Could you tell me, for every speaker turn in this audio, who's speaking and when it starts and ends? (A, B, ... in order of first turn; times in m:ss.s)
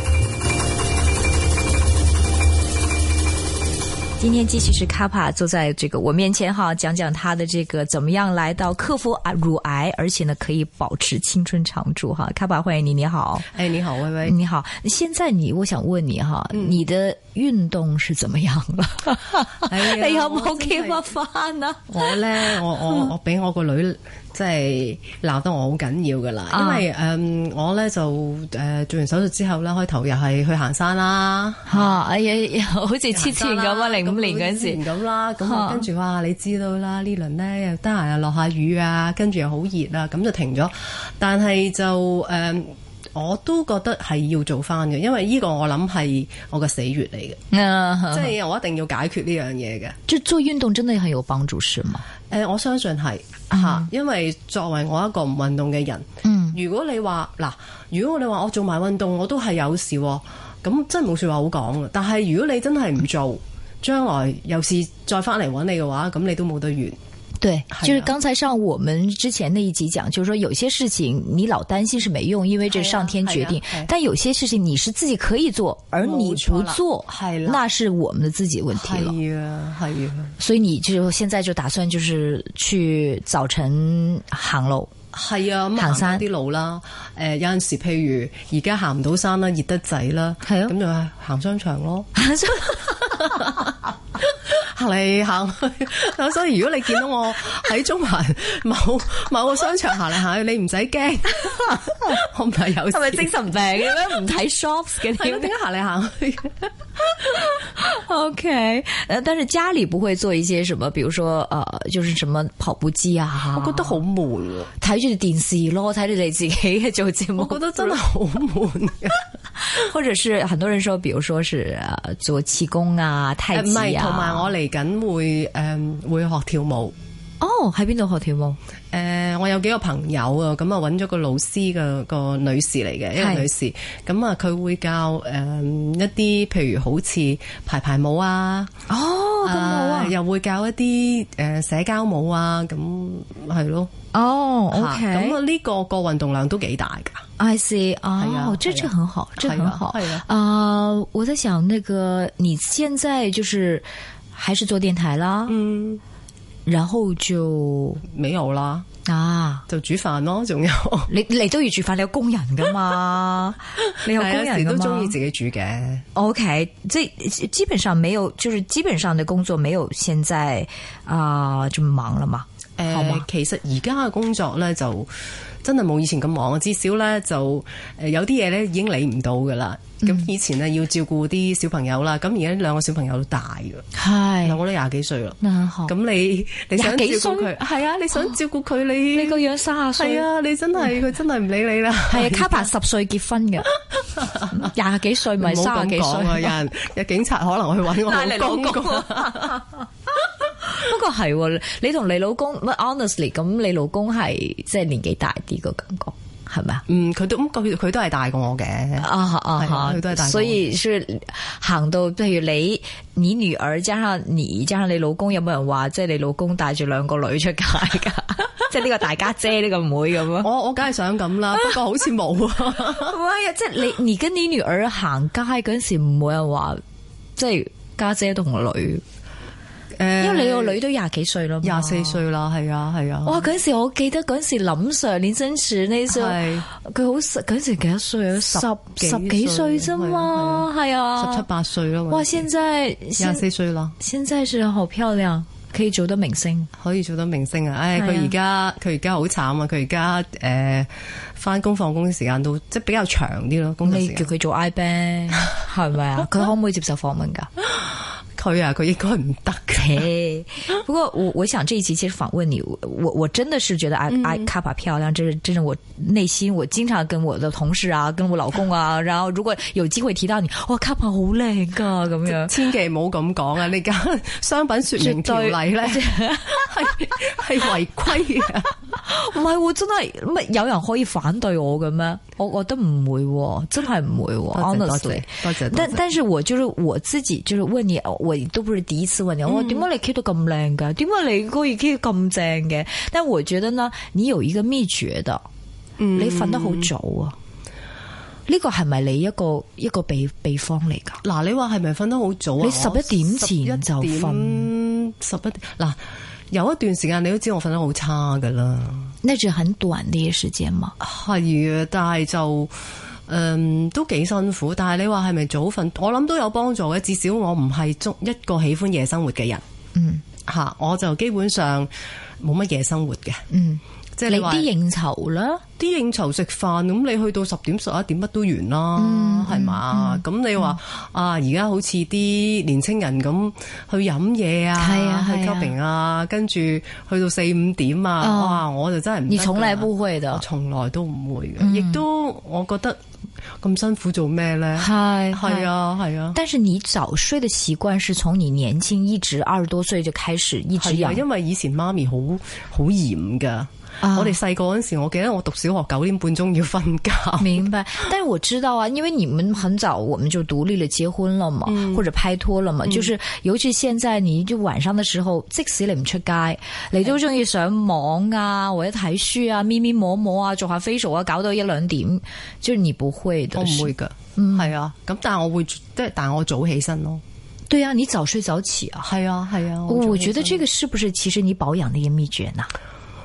0:04.2-0:13.5 A
0:13.5-0:14.4 B
0:14.2-0:23.1 A
0:16.5-0:16.8 B
0:19.6-0:21.0 B
0:21.9-0:32.0 B
0:26.5-0:26.8 A
0:31.7-0:34.8 A
0:33.1-0:47.4 B
0:35.4-0:35.8 A
0:47.5-0:48.3 A
0:48.1-0:50.0 B
0:50.1-0:52.0 A
0:52.3-1:07.0 B
0:53.5-0:53.9 A
0:56.2-0:56.6 A
1:07.4-1:19.2 A
1:07.7-1:08.1 B
1:12.7-1:13.9 B
1:16.0-1:17.6 B
1:18.7-1:20.3 B
1:20.4-1:24.9 A
1:25.1-1:32.1 B
1:25.8-1:26.2 A
1:30.4-1:30.7 A
1:32.1-1:33.7 A
1:32.8-1:33.7 B
1:34.3-1:43.4 B
1:41.4-1:42.2 A
1:42.9-1:45.5 A
1:45.0-1:46.7 B
1:47.1-1:54.0 A
1:53.5-1:54.7 B
1:54.8-1:58.0 A
1:57.4-1:59.2 B
1:59.6-2:04.5 A
2:03.5-2:06.9 B
2:07.4-2:08.6 A
2:08.9-2:18.7 B
2:13.2-2:13.5 A
2:18.9-2:20.1 A
2:19.4-2:23.9 B
2:24.1-2:25.4 A
2:24.7-2:27.2 B
2:27.4-2:35.6 A
2:28.2-2:30.2 B
2:35.5-2:36.0 B
2:36.6-2:38.0 A
2:38.1-2:38.8 B
2:39.0-2:39.6 A
2:39.7-2:41.1 B
2:41.1-2:45.2 A
2:44.0-2:46.0 B
2:46.1-2:53.2 A
2:52.8-2:55.1 B
2:55.6-3:03.8 B
3:00.0-3:00.3 A
3:03.9-3:04.6 A
3:04.4-3:12.7 B
3:05.4-3:05.9 A
3:06.8-3:07.5 A
3:09.1-3:10.3 A
3:12.1-3:13.7 A
3:14.4-3:16.6 A
3:15.4-3:19.6 B
3:18.0-3:26.8 A
3:26.9-3:30.6 B
3:29.0-3:40.5 A
3:40.4-3:43.2 B
3:42.9-3:46.8 A
3:47.4-3:49.0 A
3:50.0-3:50.8 B
3:50.2-3:52.2 A
3:51.6-3:53.5 B
3:53.2-4:01.4 A
3:56.1-3:56.7 B
3:58.4-4:02.5 B
4:02.1-4:03.4 A
4:03.2-4:04.0 B
4:04.0-4:06.7 A
4:06.8-4:14.3 B
4:07.9-4:08.3 A
4:13.8-4:17.5 A
4:18.4-4:20.1 B
4:19.8-4:32.5 A
4:24.1-4:24.5 B
4:32.2-4:38.7 B
4:35.0-4:36.7 A
4:39.0-4:55.4 A
4:44.5-4:46.0 B
4:49.4-4:49.9 B
4:56.0-4:56.9 B
4:56.1-4:57.3 A
4:58.5-5:01.2 A
5:01.2-5:06.0 B
5:02.6-5:04.7 A
5:06.5-5:09.1 B
5:09.2-5:10.9 A
5:11.0-5:12.7 B
5:13.3-5:19.6 B
5:19.9-5:20.2 A
5:20.4-5:23.4 B
5:23.5-5:25.6 A
5:24.2-5:24.7 B
5:25.8-5:43.0 B
5:29.0-5:30.7 A
5:34.8-5:35.7 A
5:38.2-5:38.6 A
5:39.3-5:40.4 A
5:41.6-5:42.0 A
5:43.6-5:46.4 B
5:44.8-5:45.7 A
5:46.3-5:51.2 A
5:50.8-5:57.7 B
5:54.0-5:54.4 A
5:57.4-6:14.7 A
6:01.6-6:02.1 B
6:02.8-6:03.1 B
6:13.5-6:17.2 B
6:17.7-6:19.1 A
6:19.0-6:20.6 B
6:19.9-6:22.7 A